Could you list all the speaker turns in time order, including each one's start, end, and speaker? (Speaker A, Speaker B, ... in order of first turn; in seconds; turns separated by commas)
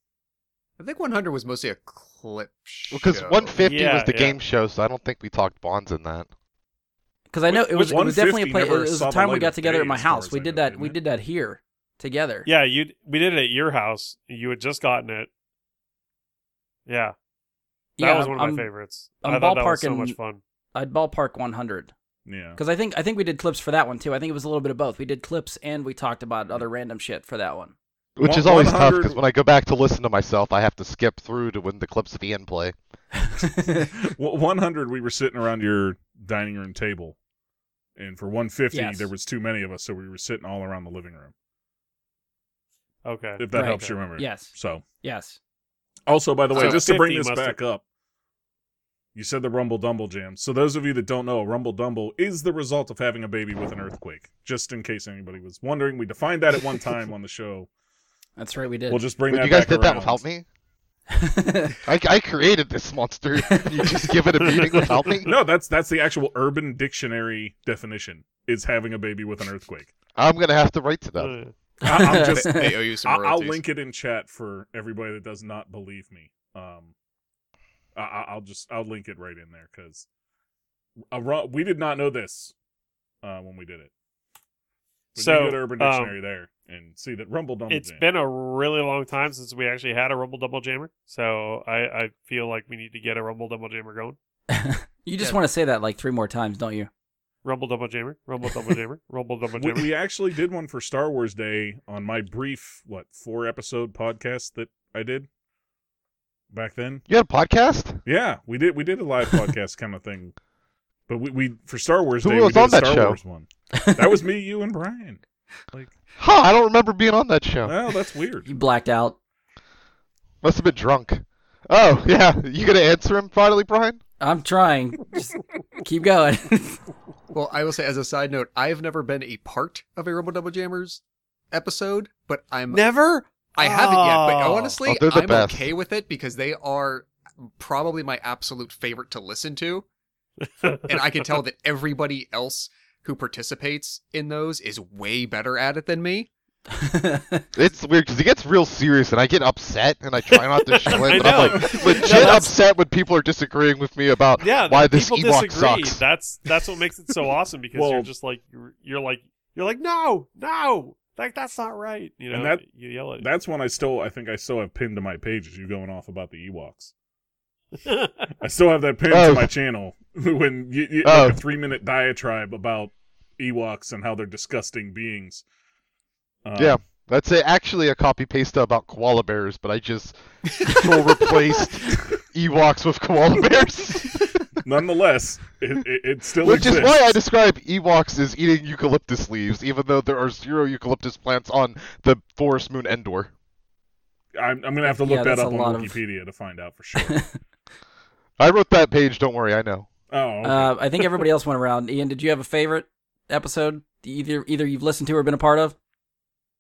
Speaker A: 0.8-3.6, Speaker B: 2.9-6.3, Speaker C: 3.6-4.4, Speaker D: 7.3-12.5, Speaker E: 7.5-11.0, Speaker C: 12.5-15.3, Speaker C: 16.9-17.1, Speaker D: 18.0-18.7, Speaker C: 18.0-20.4, Speaker D: 19.2-20.2, Speaker D: 20.7-21.9, Speaker E: 22.3-22.6, Speaker D: 22.6-27.7, Speaker B: 28.2-32.8, Speaker E: 28.2-29.2, Speaker D: 33.4-33.9, Speaker E: 34.0-37.2, Speaker E: 38.0-41.3, Speaker D: 38.7-39.1, Speaker C: 43.0-44.0, Speaker E: 43.4-44.8, Speaker D: 43.5-45.4, Speaker E: 46.1-47.8, Speaker C: 46.5-47.6, Speaker E: 49.1-57.7, Speaker D: 58.4-59.0, Speaker E: 58.9-60.2, Speaker B: 59.3-60.5, Speaker D: 61.1-61.8, Speaker B: 61.9-65.3, Speaker D: 63.7-64.0, Speaker C: 64.4-65.1, Speaker E: 65.2-69.9, Speaker B: 70.2-71.3, Speaker C: 71.2-71.5, Speaker E: 71.8-76.9, Speaker D: 71.8-72.7, Speaker A: 72.0-73.6, Speaker E: 78.0-80.1, Speaker E: 81.1-82.5, Speaker E: 83.2-83.9, Speaker E: 85.2-88.0, Speaker C: 85.2-86.2, Speaker C: 87.7-94.2, Speaker D: 94.5-96.9, Speaker C: 97.4-99.9, Speaker E: 99.6-105.3, Speaker E: 106.5-107.0, Speaker B: 107.1-108.0, Speaker E: 108.0-110.3, Speaker E: 111.1-115.9, Speaker B: 112.2-113.2, Speaker D: 113.7-114.1, Speaker B: 116.2-117.8, Speaker E: 117.7-118.5, Speaker D: 118.5-119.2, Speaker B: 120.4-124.0, Speaker D: 124.2-126.8, Speaker A: 127.3-131.0, Speaker A: 131.5-132.9, Speaker C: 132.7-134.8, Speaker A: 133.5-139.9, Speaker B: 134.9-135.7, Speaker C: 140.6-140.9, Speaker A: 140.9-146.3, Speaker D: 146.7-147.5, Speaker B: 147.6-156.0, Speaker C: 150.4-152.5, Speaker E: 151.2-151.9, Speaker D: 152.0-152.4, Speaker C: 154.4-163.3, Speaker E: 157.7-158.1, Speaker E: 162.3-162.6, Speaker E: 163.2-166.9, Speaker C: 167.8-168.3, Speaker E: 168.4-175.4, Speaker B: 169.1-169.5, Speaker B: 171.0-171.4, Speaker E: 176.4-176.8, Speaker B: 176.6-184.2, Speaker A: 180.6-181.0, Speaker E: 184.6-187.2, Speaker B: 186.4-193.3, Speaker E: 194.3-197.2, Speaker D: 194.8-196.0, Speaker D: 197.0-197.3, Speaker B: 198.4-199.9, Speaker E: 200.1-201.2, Speaker D: 200.4-205.8